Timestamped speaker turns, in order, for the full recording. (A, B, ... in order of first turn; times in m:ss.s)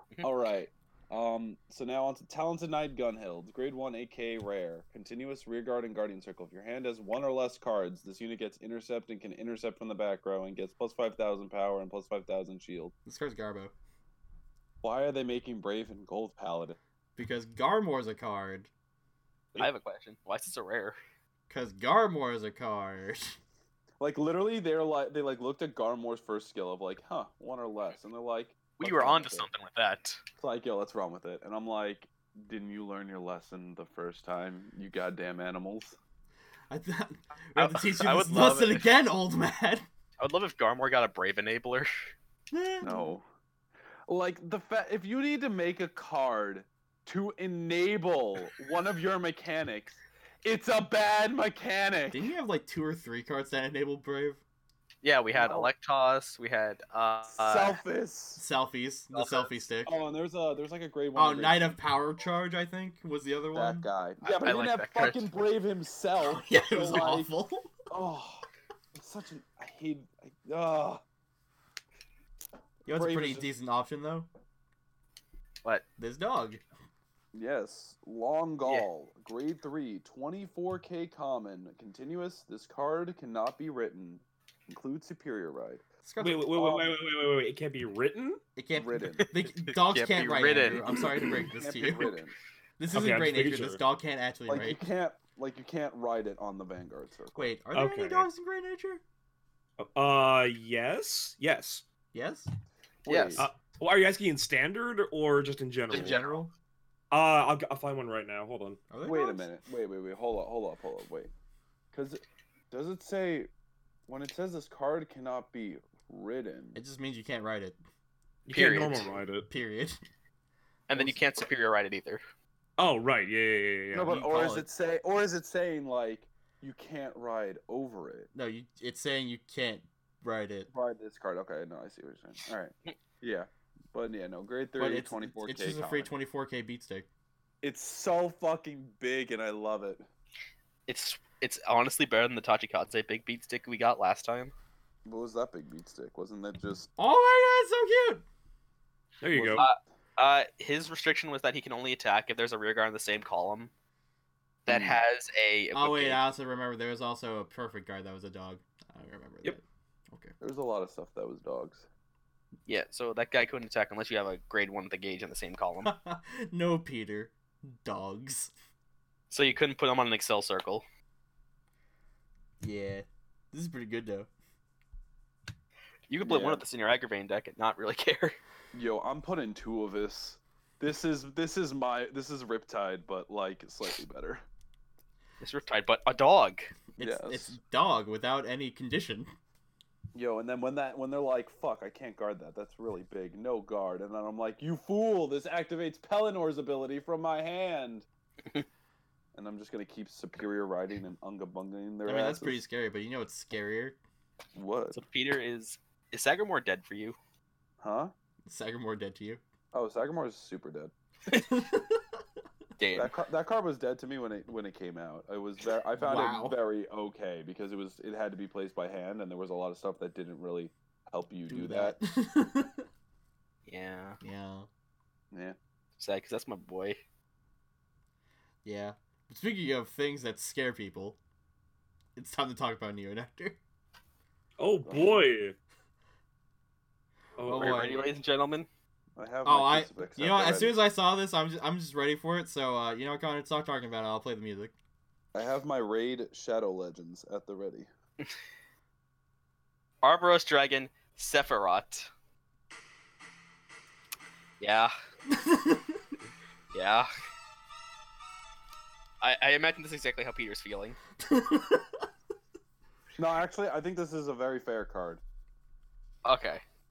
0:00.2-0:12.9 A
0:13.1-0:13.7 B
0:14.8-0:16.8 A
0:17.2-0:18.7 B
0:19.6-0:21.0 C
0:21.5-0:23.4 B
0:24.0-0:29.5 A
0:28.8-0:30.2 C
0:30.4-0:36.0 A
0:36.7-0:39.9 B
0:37.6-0:38.9 C
0:40.2-0:42.1 C
0:42.5-0:43.2 B
0:42.8-0:43.2 A
0:44.1-0:52.3 A
0:52.1-0:54.4 B
0:55.0-0:57.8 C
0:55.3-0:55.7 A
0:57.4-0:58.4 A
0:58.4-1:00.0 B
0:59.1-0:59.5 C
0:59.8-1:01.8 A
1:01.2-1:03.9 B
1:03.5-1:07.3 A
1:04.2-1:05.3 C
1:06.2-1:07.7 B
1:07.9-1:11.0 A
1:12.8-1:14.3 B
1:12.9-1:13.5 A
1:16.0-1:16.6 B
1:17.3-1:25.8 A
1:26.0-1:26.5 B
1:26.2-1:28.4 D
1:26.6-1:26.9 A
1:28.6-1:32.2 B
1:28.8-1:29.3 A
1:29.2-1:31.3 C
1:30.5-1:32.4 A
1:32.8-1:34.8 B
1:32.9-1:33.8 D
1:34.5-1:37.5 A
1:37.4-1:39.0 B
1:37.7-1:38.3 D
1:39.8-1:41.8 D
1:42.1-1:42.5 B
1:43.1-1:43.5 A
1:43.1-1:43.5 C
1:43.4-1:46.2 D
1:45.9-1:46.5 C
1:47.1-1:48.8 D
1:48.9-1:49.5 B
1:49.0-1:51.3 A
1:51.9-1:53.5 A
1:54.1-1:56.8 A
1:56.8-1:57.8 B
1:58.5-1:59.5 D
1:58.5-1:59.1 C
1:59.5-2:00.0 B
2:00.9-2:02.2 C
2:02.8-2:04.2 D
2:03.9-2:08.3 A
2:04.0-2:04.7 B
2:08.3-2:10.7 B
2:10.7-2:16.1 A
2:14.8-2:17.1 B
2:17.6-2:20.1 A
2:20.9-2:24.5 C
2:25.0-2:26.9 A
2:27.0-2:28.2 B
2:29.2-2:29.7 D
2:29.4-2:29.7 A
2:29.6-2:33.7 C
2:34.7-2:36.2 C
2:34.7-2:35.0 A
2:35.7-2:40.4 B
2:40.4-2:41.9 A
2:42.7-2:45.9 C
2:45.8-2:48.5 B
2:49.3-2:50.8 C
2:52.6-2:54.3 B
2:56.1-2:58.4 C
2:56.2-2:56.6 A
2:58.7-3:04.4 A
3:05.4-3:06.7 C
3:07.0-3:09.3 B
3:07.0-3:07.6 A
3:10.1-3:18.1 A
3:19.3-3:22.6 A
3:22.0-3:24.0 B
3:24.6-3:25.0 A
3:24.9-3:27.2 C
3:27.8-3:28.1 A
3:28.5-3:29.4 B
3:29.7-3:30.9 A
3:31.3-3:32.2 B
3:32.8-3:33.1 C
3:33.0-3:42.0 A
3:36.0-3:36.6 B
3:41.5-3:42.9 B
3:43.7-3:44.2 C
3:44.2-3:44.7 B
3:45.3-3:45.6 A
3:46.0-3:47.0 C
3:48.6-3:51.2 B
3:52.2-3:53.6 B
3:54.6-3:55.6 D
3:54.9-3:55.2 A
3:57.4-3:57.8 D
3:57.4-3:58.1 B
3:57.5-3:58.7 C
3:59.2-4:00.8 A
3:59.4-4:04.7 B
4:05.3-4:07.9 A
4:10.0-4:12.1 C
4:14.6-4:14.9 C
4:15.3-4:16.0 B
4:16.7-4:17.1 C
4:19.2-4:21.0 C
4:21.2-4:22.1 B
4:23.2-4:25.2 A
4:26.2-4:26.6 C